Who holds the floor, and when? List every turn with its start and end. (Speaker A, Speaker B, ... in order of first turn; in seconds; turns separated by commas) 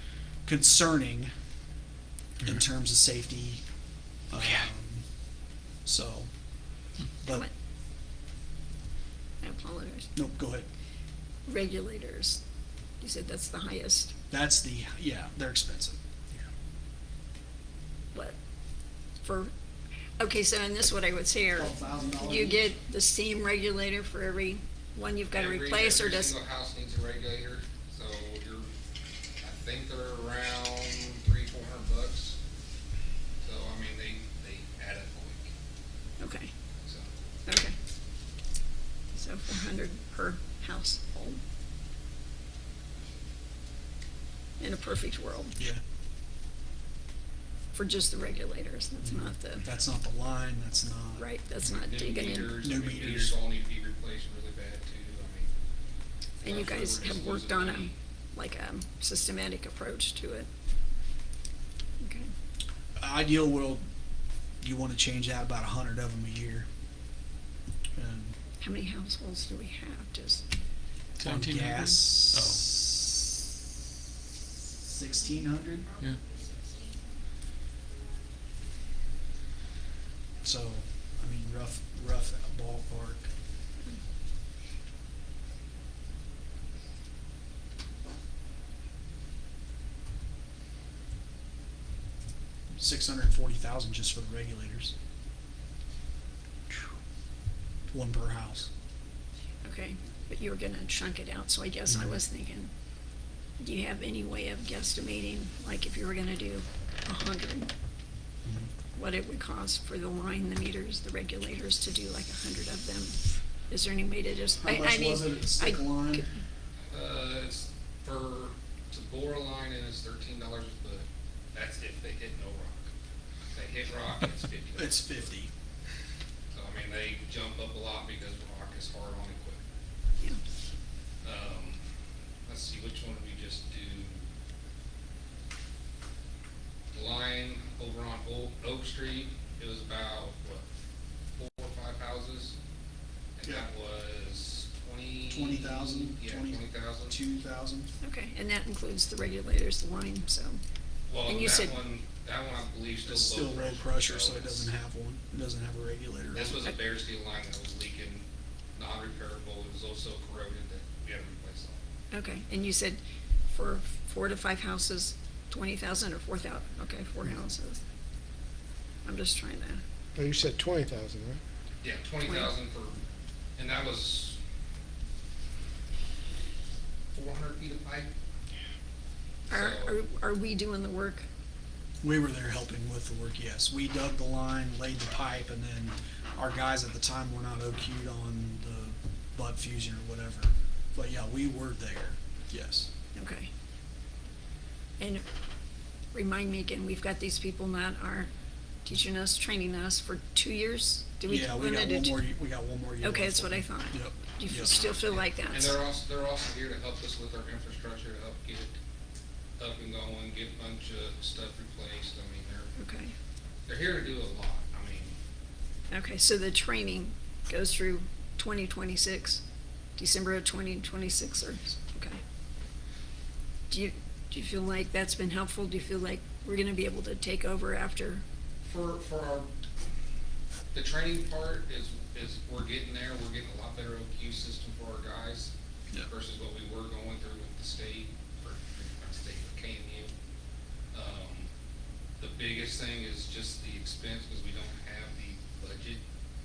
Speaker A: 0.4-1.3, Speaker A: 2.4-3.6, Speaker A: 4.3-5.0, Speaker B: 4.3-4.6, Speaker A: 5.8-6.3, Speaker A: 7.2-7.5, Speaker C: 9.4-10.1, Speaker A: 10.1-10.7, Speaker C: 11.5-12.4, Speaker C: 13.0-14.1, Speaker A: 14.3-16.4, Speaker C: 19.2-19.5, Speaker C: 20.2-26.4, Speaker A: 21.6-22.8, Speaker D: 25.3-28.7, Speaker D: 29.4-32.4, Speaker D: 33.4-35.5, Speaker C: 36.2-36.5, Speaker D: 36.8-37.1, Speaker C: 37.5-37.7, Speaker C: 39.1-41.4, Speaker C: 44.6-45.6, Speaker C: 47.7-49.6, Speaker A: 49.0-51.2, Speaker C: 51.2-52.6, Speaker D: 51.7-55.5, Speaker A: 52.6-53.4, Speaker C: 56.4-60.5, Speaker D: 56.4-57.9, Speaker C: 62.0-62.3, Speaker A: 63.0-63.9, Speaker A: 64.6-66.7, Speaker A: 68.0-68.4, Speaker C: 68.6-70.4, Speaker B: 71.2-72.6, Speaker A: 71.2-73.2, Speaker A: 74.8-76.0, Speaker A: 80.4-83.3, Speaker A: 92.7-94.9, Speaker A: 97.9-98.7, Speaker C: 99.6-102.7, Speaker A: 101.9-102.2, Speaker C: 103.6-107.7, Speaker A: 108.4-108.7, Speaker C: 109.0-116.3, Speaker A: 114.6-116.2, Speaker D: 116.9-122.9, Speaker D: 123.5-125.2, Speaker A: 124.8-125.5, Speaker D: 126.5-129.6, Speaker D: 131.2-131.8, Speaker D: 132.4-134.2, Speaker D: 136.9-140.7, Speaker D: 141.4-142.6, Speaker D: 143.4-147.2, Speaker A: 145.3-147.9, Speaker C: 148.0-150.6, Speaker D: 151.1-154.7, Speaker C: 151.2-151.8, Speaker A: 153.1-156.7, Speaker D: 156.3-161.8, Speaker C: 162.1-167.8, Speaker C: 169.0-169.8, Speaker B: 170.2-171.4, Speaker D: 171.8-173.0, Speaker C: 172.2-172.5, Speaker D: 173.6-174.4, Speaker D: 177.1-178.1, Speaker C: 179.5-181.2, Speaker D: 179.5-180.0, Speaker A: 182.0-192.9, Speaker C: 193.1-193.5, Speaker C: 195.0-195.2, Speaker C: 196.1-198.3, Speaker C: 198.8-202.3, Speaker A: 201.3-204.8, Speaker C: 203.0-205.8, Speaker D: 205.4-208.8, Speaker D: 209.6-212.7, Speaker C: 212.8-213.1, Speaker D: 213.7-215.2, Speaker C: 215.9-219.4, Speaker C: 220.0-222.2, Speaker C: 223.7-228.2, Speaker D: 228.7-229.5, Speaker D: 230.7-240.1, Speaker D: 240.9-241.5, Speaker D: 242.2-246.0